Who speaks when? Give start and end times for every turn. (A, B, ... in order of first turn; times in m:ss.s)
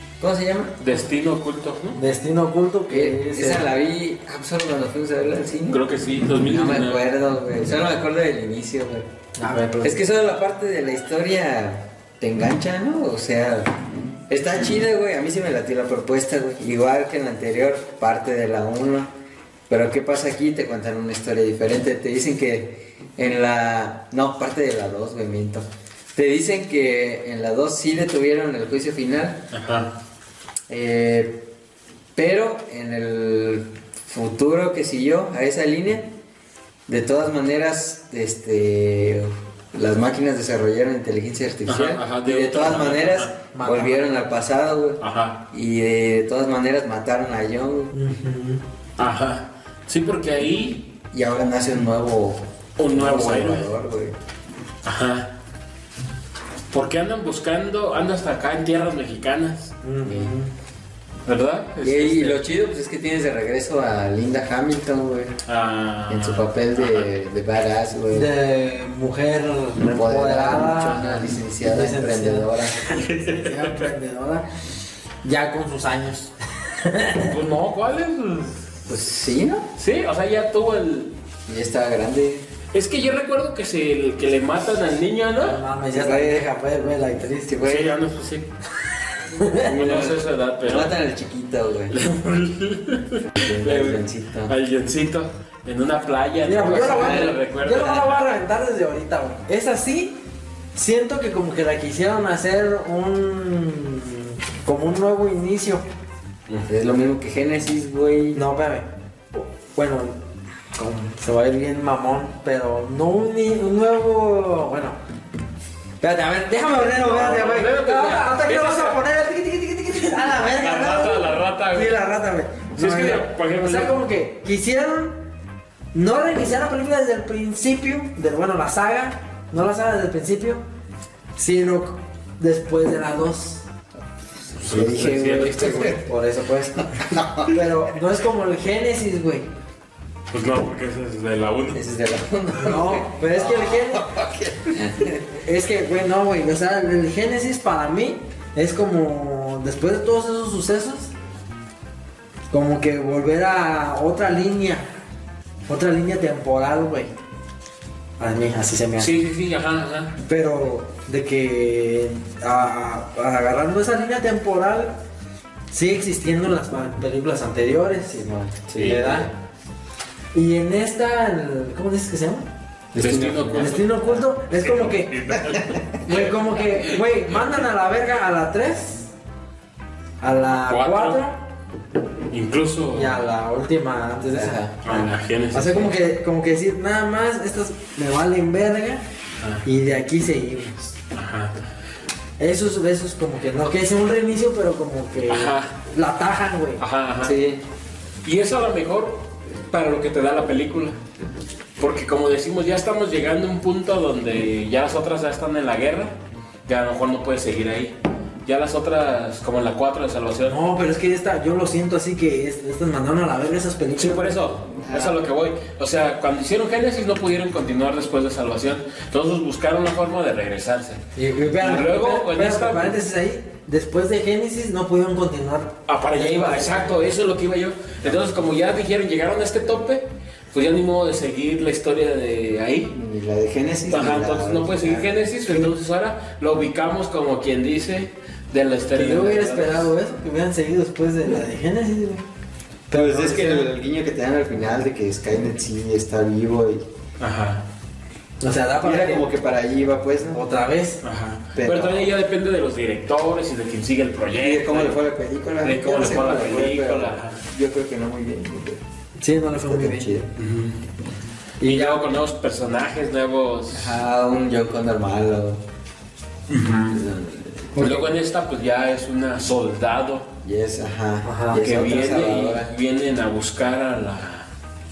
0:00.2-0:00.8 A
0:00.8-0:02.0 B
0:02.0-0:03.6 C
0:02.9-0:05.8 A
0:05.7-0:07.0 B
0:06.4-0:09.1 A
0:09.4-0:10.0 C
0:09.8-0:19.1 A
0:19.7-0:29.4 A
0:29.5-0:29.9 B
0:30.7-0:31.4 A
0:32.2-0:36.1 A
0:36.9-0:47.9 A
0:41.7-0:43.3 B
0:43.5-0:44.1 C
0:45.0-0:45.4 B
0:47.9-0:48.6 C
0:49.0-0:50.9 B
0:51.1-0:54.2 A
0:52.8-0:53.7 B
0:54.8-0:55.3 B
0:56.7-0:59.8 B
0:59.8-1:00.5 C
1:00.1-1:00.3 A
1:01.3-1:02.4 B
1:01.8-1:05.3 A
1:05.5-1:07.1 B
1:06.1-1:08.3 A
1:08.1-1:14.4 C
1:09.9-1:13.0 A
1:12.9-1:13.9 B
1:15.2-1:17.4 C
1:17.3-1:18.8 B
1:18.9-1:19.7 A
1:19.8-1:21.1 B
1:21.5-1:22.5 A
1:22.7-1:25.6 B
1:25.4-1:27.8 C
1:25.9-1:27.9 A
1:27.6-1:28.5 B
1:29.3-1:30.0 C
1:29.6-1:30.9 B
1:29.8-1:32.0 A
1:31.9-1:38.2 B
1:33.3-1:34.6 A
1:36.4-1:40.2 C
1:36.8-1:38.0 A
1:40.8-1:45.8 C
1:46.7-1:48.4 A
1:48.3-1:50.2 C
1:50.8-1:55.0 C
1:56.0-2:05.2 C
1:56.7-1:59.0 B
2:00.4-2:02.0 B
2:02.8-2:04.0 B
2:05.9-2:10.6 C
2:11.4-2:13.6 C
2:14.6-2:16.1 A
2:14.6-2:16.0 B
2:16.0-2:19.5 C
2:16.8-2:17.6 A
2:20.3-2:21.8 B
2:21.7-2:25.2 A
2:22.5-2:24.1 C
2:25.3-2:31.1 C
2:32.5-2:34.9 C
2:35.7-2:37.1 C
2:38.2-2:39.1 C
2:39.0-2:40.2 B
2:40.2-2:44.9 C
2:45.7-2:48.3 C
2:48.1-2:49.3 A
2:48.7-2:49.2 B
2:48.8-2:49.3 C
2:50.3-2:52.5 C
2:52.9-2:53.8 A
2:53.0-2:57.6 B
2:53.6-2:55.4 C
2:55.5-2:55.8 A
2:56.0-2:59.1 C
3:00.2-3:01.4 C
3:00.5-3:01.2 B
3:02.3-3:03.2 B
3:02.9-3:09.0 C
3:04.3-3:04.8 A
3:04.8-3:05.9 B
3:09.6-3:10.9 C
3:11.1-3:11.5 B
3:12.4-3:16.8 C
3:15.3-3:15.7 B
3:16.8-3:17.4 B
3:17.2-3:17.6 A
3:18.2-3:21.0 B
3:21.8-3:26.2 B
3:26.7-3:30.6 B
3:30.5-3:34.4 C
3:34.0-3:41.0 B
3:41.2-3:47.1 C
3:41.6-3:43.0 B
3:45.9-3:52.9 B
3:52.9-3:55.1 A
3:53.9-3:59.9 B
3:58.9-4:02.2 C
4:02.9-4:03.7 C
4:02.9-4:06.8 A
4:07.2-4:07.6 B
4:08.4-4:09.3 C
4:08.8-4:10.4 A
4:10.3-4:11.0 C
4:11.0-4:15.0 B
4:11.6-4:12.1 A
4:14.4-4:18.8 A
4:15.6-4:17.4 B
4:19.2-4:20.1 C
4:19.7-4:20.3 A
4:20.4-4:20.8 B
4:21.6-4:22.0 C
4:21.6-4:24.0 B
4:23.7-4:25.6 A
4:26.5-4:27.0 B
4:26.9-4:27.7 A
4:27.8-4:28.1 C
4:27.8-4:30.3 B
4:30.4-4:32.7 A
4:31.2-4:31.6 C
4:31.6-4:34.5 B